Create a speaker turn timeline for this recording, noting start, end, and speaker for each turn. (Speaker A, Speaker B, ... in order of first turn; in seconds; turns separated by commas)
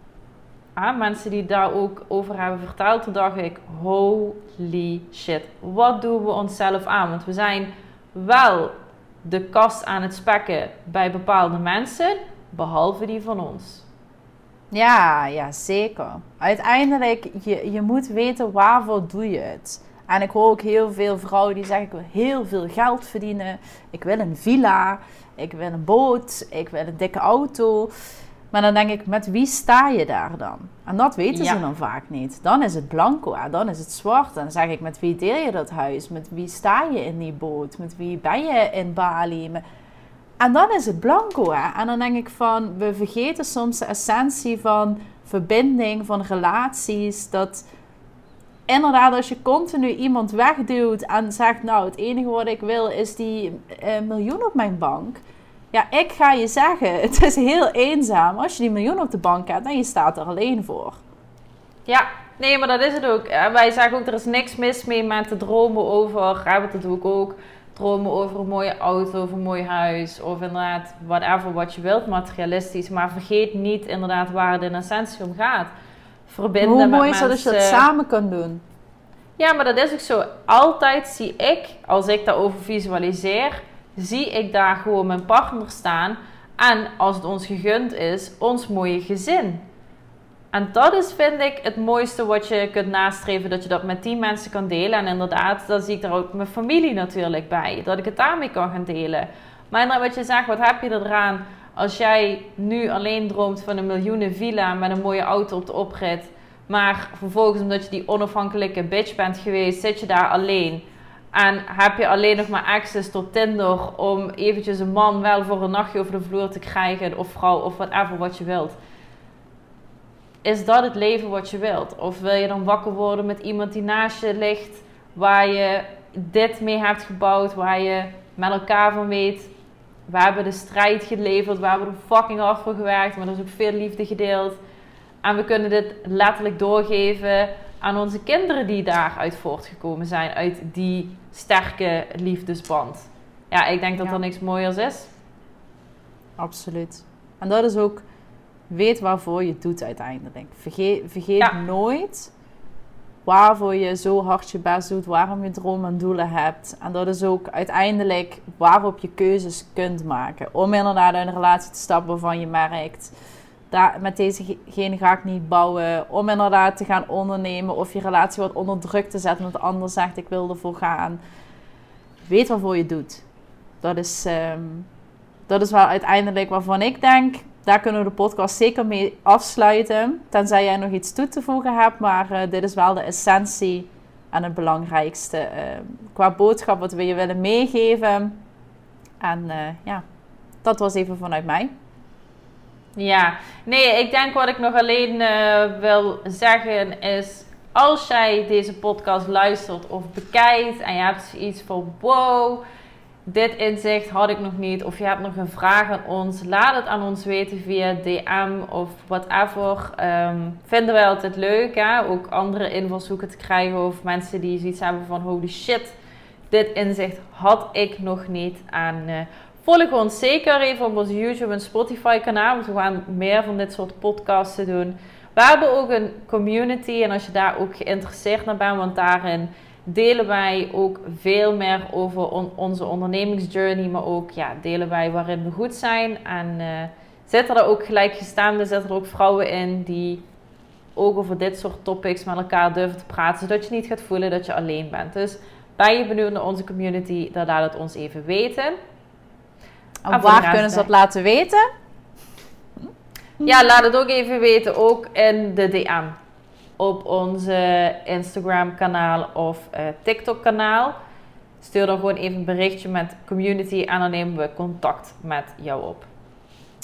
Speaker A: 0.7-13.8, Speaker B: 14.7-27.9, Speaker B: 28.5-39.6, Speaker A: 31.3-31.6, Speaker B: 40.4-47.6, Speaker B: 48.7-55.2, Speaker B: 55.7-61.0, Speaker A: 61.9-75.7, Speaker A: 76.3-77.8, Speaker B: 76.6-78.6, Speaker A: 79.4-89.6, Speaker A: 90.5-118.8, Speaker A: 120.4-129.5, Speaker A: 130.1-134.6, Speaker A: 135.2-145.1, Speaker B: 146.4-148.0, Speaker B: 148.7-152.3, Speaker B: 153.2-163.1, Speaker B: 163.7-171.2, Speaker B: 172.2-173.2, Speaker B: 173.8-174.9, Speaker B: 175.5-188.4, Speaker B: 189.2-190.0, Speaker B: 190.6-191.7, Speaker A: 192.9-202.6, Speaker A: 203.2-215.9, Speaker A: 216.5-240.2, Speaker A: 240.9-248.8, Speaker B: 250.1-251.7, Speaker A: 250.1-250.9, Speaker A: 253.4-256.2, Speaker A: 256.8-260.9, Speaker A: 261.6-266.1